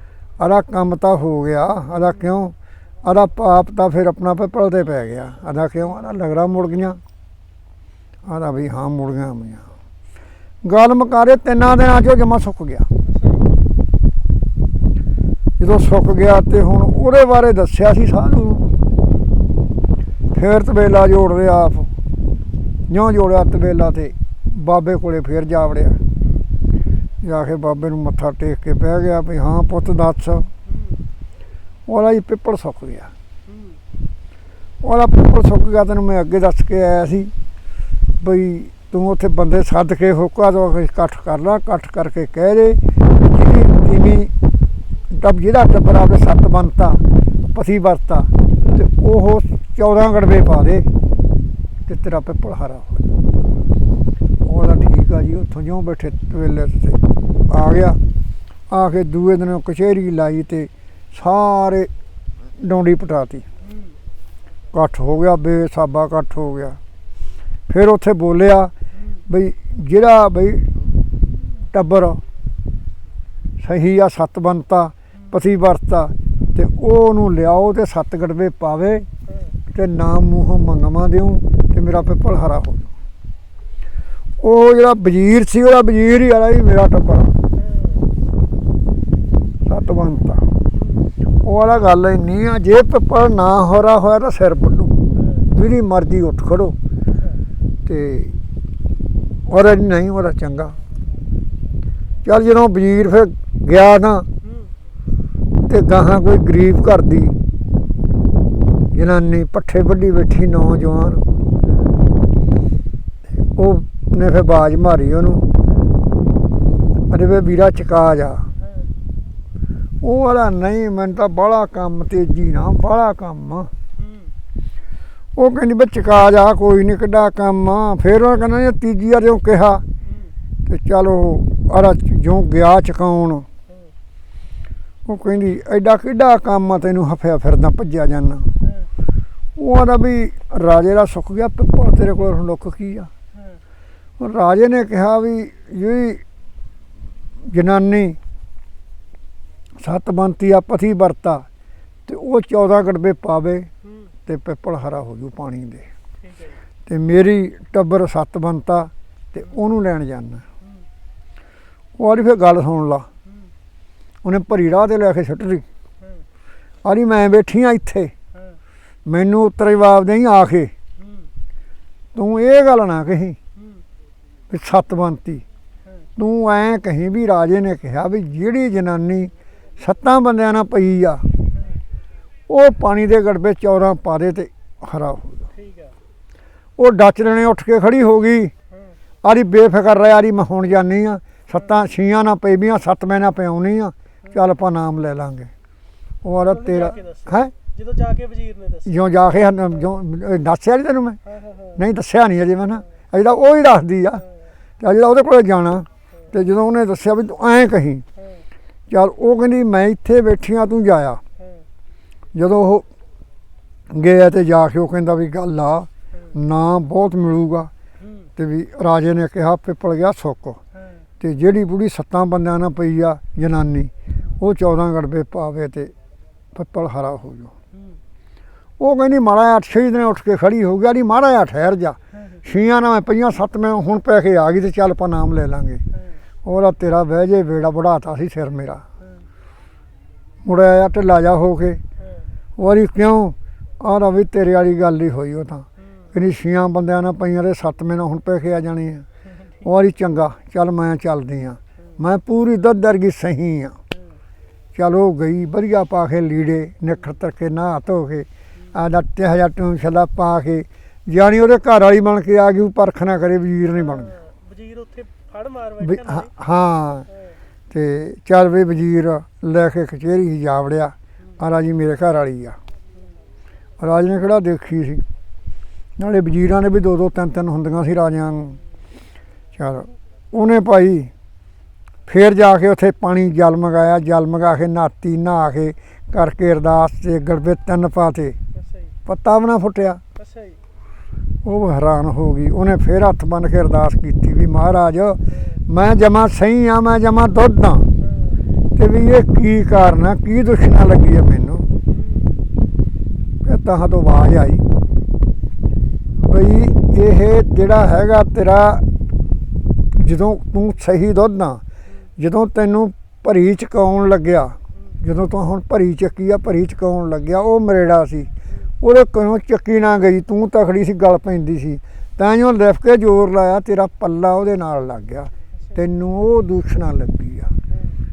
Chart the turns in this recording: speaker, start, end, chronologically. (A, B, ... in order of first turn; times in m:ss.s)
0:00.4-0:07.0 A
0:01.9-0:02.3 B
0:08.2-0:09.6 A
0:10.6-0:12.9 A
0:13.0-0:13.5 B
0:15.6-0:18.7 A
0:19.0-0:19.5 B
0:20.3-0:21.9 A
0:22.9-0:26.0 A
0:26.2-0:26.5 B
0:27.2-0:30.5 A
0:30.6-0:31.0 B
0:31.9-0:33.1 A
0:33.4-0:33.8 B
0:34.8-0:37.3 A
0:38.2-0:44.3 A
0:45.1-0:47.0 A
0:47.5-0:50.9 A
0:51.8-0:53.1 A
0:53.3-0:53.8 B
0:54.4-0:58.0 A
0:58.7-1:01.9 A
1:02.6-1:03.4 A
1:03.6-1:04.0 B
1:04.7-1:06.8 A
1:07.7-1:08.7 A
1:08.9-1:09.2 B
1:09.3-1:12.2 A
1:13.6-1:19.1 A
1:19.3-1:19.6 B
1:19.7-1:22.9 A
1:24.4-1:27.3 A
1:27.6-1:28.1 B
1:29.7-1:30.5 A
1:30.7-1:31.1 B
1:31.4-1:35.0 A
1:35.1-1:35.6 B
1:35.5-1:36.8 A
1:37.1-1:37.4 B
1:37.8-1:38.3 A
1:39.5-1:40.8 A
1:42.2-1:44.3 A
1:44.4-1:44.7 B
1:45.7-1:47.4 A
1:48.9-1:51.2 A
1:51.7-1:52.0 B
1:53.6-1:55.5 A
1:55.6-1:56.0 B
1:57.1-1:58.5 A
1:58.6-1:58.9 B
2:00.0-2:03.7 A
2:04.0-2:04.4 B
2:05.4-2:09.8 A
2:10.0-2:10.4 B
2:10.7-2:13.4 A
2:13.7-2:13.9 B
2:15.1-2:18.5 A
2:18.6-2:18.9 B
2:19.6-2:23.1 A
2:23.3-2:23.6 B
2:24.2-2:26.2 A
2:27.5-2:28.2 A
2:29.8-2:31.4 A
2:32.1-2:33.7 A
2:33.8-2:34.1 B
2:34.2-2:35.9 A
2:36.2-2:36.6 B
2:36.9-2:40.4 A
2:40.6-2:40.9 B
2:42.0-2:43.1 A
2:43.2-2:43.5 B
2:44.2-2:45.6 A
2:46.0-2:46.3 B
2:46.8-2:48.1 A
2:48.3-2:48.6 B
2:49.1-2:50.7 A
2:51.0-2:51.3 B
2:52.1-2:53.4 A
2:53.6-2:53.8 B
2:54.5-2:55.4 A
2:55.8-2:56.1 B
2:56.2-3:01.2 A
3:01.5-3:01.8 B
3:02.5-3:05.4 A
3:05.5-3:06.0 B
3:06.8-3:08.5 A
3:08.7-3:09.0 B
3:09.2-3:15.5 A
3:16.2-3:17.5 A
3:16.4-3:19.1 B
3:18.8-3:21.2 A
3:21.2-3:21.8 B
3:21.8-3:24.2 A
3:24.2-3:24.5 B
3:24.8-3:28.0 A
3:28.1-3:28.5 B
3:28.9-3:31.2 A
3:31.4-3:31.7 B
3:32.3-3:32.8 A
3:33.9-3:37.7 A
3:38.0-3:38.3 B
3:38.4-3:40.6 A
3:40.7-3:41.1 B
3:41.2-3:45.9 A
3:44.1-3:44.4 B
3:46.5-3:47.5 A
3:47.7-3:48.0 B
3:48.8-3:55.8 A
3:52.1-3:52.4 B
3:55.9-3:56.2 B
3:56.4-3:58.8 A
3:59.0-3:59.3 B
4:00.4-4:01.8 A
4:02.0-4:02.3 B
4:02.6-4:09.0 A
4:05.8-4:06.1 B
4:09.4-4:09.7 B
4:09.6-4:13.8 A
4:13.9-4:14.2 B
4:14.7-4:24.1 A
4:18.5-4:18.8 B
4:23.7-4:26.3 B
4:25.8-4:27.1 A
4:27.1-4:27.4 B
4:27.7-4:32.6 A
4:33.8-4:35.0 A
4:36.0-4:38.6 A
4:39.6-4:41.1 A
4:42.1-4:48.4 A
4:48.5-4:48.9 B
4:49.1-4:50.0 A
4:50.2-4:50.6 B
4:51.4-4:57.9 A
4:55.3-4:55.6 B
4:58.0-4:58.5 B
4:58.8-5:01.7 A
5:01.8-5:02.6 B
5:03.4-5:04.7 A
5:04.8-5:05.2 B
5:06.2-5:08.8 A
5:09.9-5:11.6 A
5:12.2-5:18.3 A
5:14.7-5:15.0 B
5:18.8-5:27.5 A
5:27.7-5:28.0 B